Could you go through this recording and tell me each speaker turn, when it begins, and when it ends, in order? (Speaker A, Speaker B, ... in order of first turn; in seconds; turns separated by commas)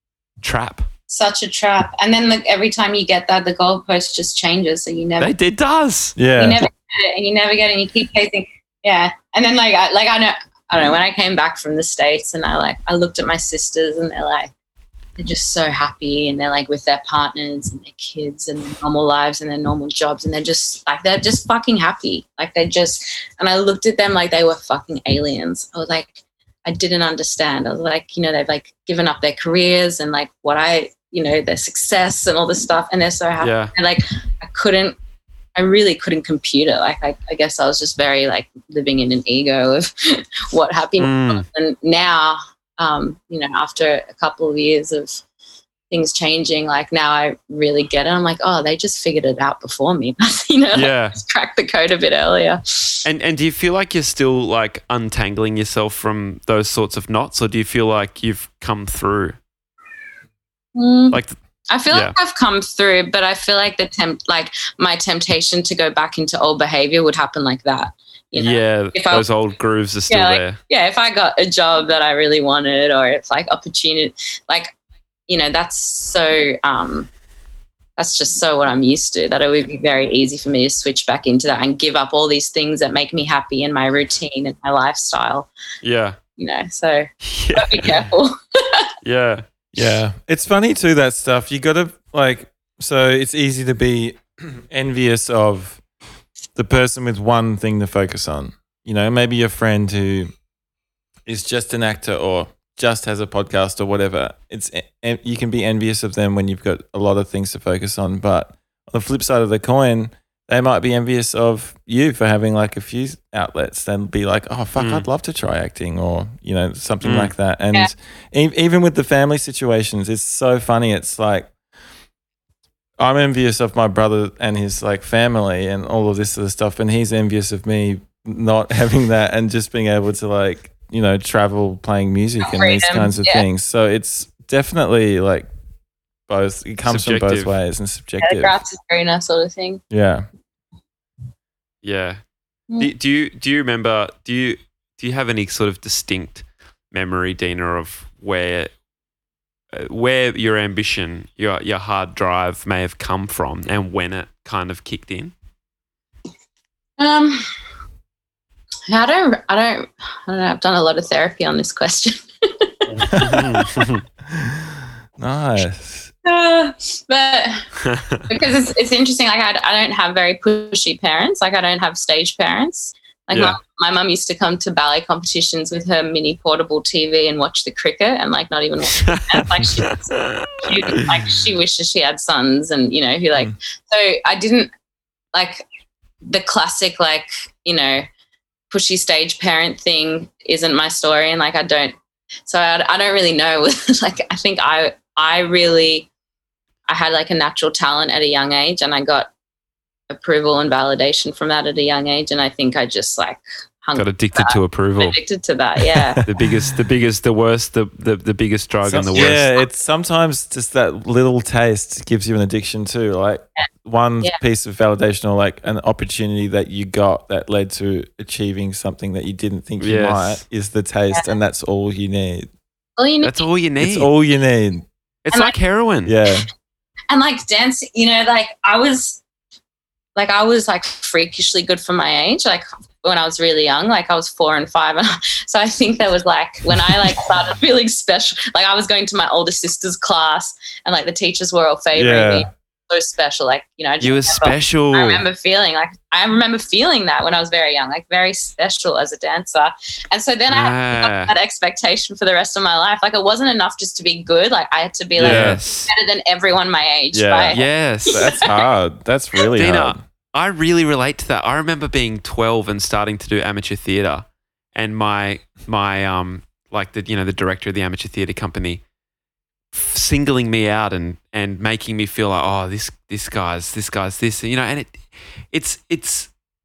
Speaker A: 0.4-0.9, Speaker B: 1.1-5.3, Speaker A: 5.2-6.2, Speaker C: 6.2-6.6, Speaker B: 6.3-14.5, Speaker B: 15.2-35.0, Speaker A: 33.4-33.7, Speaker B: 35.5-45.2, Speaker A: 41.0-41.4, Speaker B: 45.9-53.0, Speaker A: 50.7-51.1, Speaker A: 53.0-59.4, Speaker B: 60.7-69.2, Speaker A: 61.9-62.1, Speaker A: 68.3-70.6, Speaker B: 70.1-74.7, Speaker B: 75.3-77.1, Speaker B: 78.0-85.5, Speaker A: 85.8-86.2, Speaker B: 86.4-88.9, Speaker A: 87.2-88.0, Speaker A: 89.0-89.5, Speaker C: 89.7-95.8, Speaker C: 96.5-100.3, Speaker C: 101.2-121.5, Speaker A: 114.8-115.1, Speaker A: 117.0-117.3, Speaker C: 123.0-135.5, Speaker B: 132.4-133.4, Speaker C: 136.3-138.5, Speaker A: 136.8-137.6, Speaker B: 138.2-139.8, Speaker C: 139.9-140.3, Speaker A: 141.8-142.2, Speaker A: 142.8-148.7, Speaker A: 149.7-155.3, Speaker B: 157.0-157.5, Speaker B: 158.9-163.7, Speaker A: 162.9-164.0, Speaker C: 164.3-166.1, Speaker B: 166.2-167.7, Speaker A: 167.8-168.2, Speaker B: 168.3-184.7, Speaker A: 173.3-173.6, Speaker A: 178.9-181.1, Speaker B: 185.3-185.6, Speaker B: 186.2-188.1, Speaker B: 188.7-191.9, Speaker B: 192.4-196.1, Speaker B: 196.9-199.3, Speaker B: 200.1-206.2, Speaker A: 203.9-205.2, Speaker C: 205.9-206.4, Speaker A: 206.2-209.5, Speaker C: 208.8-222.5, Speaker A: 219.8-220.4, Speaker B: 223.0-223.4, Speaker A: 223.2-224.1, Speaker C: 223.8-224.8, Speaker A: 225.2-226.1, Speaker C: 226.1-226.5, Speaker B: 227.1-229.2, Speaker B: 230.2-258.5, Speaker C: 241.9-242.5, Speaker A: 244.0-245.2, Speaker A: 250.5-251.3, Speaker C: 255.2-255.6, Speaker A: 255.2-255.9, Speaker C: 257.1-260.0, Speaker A: 257.5-258.3, Speaker A: 259.6-268.8, Speaker A: 269.7-276.3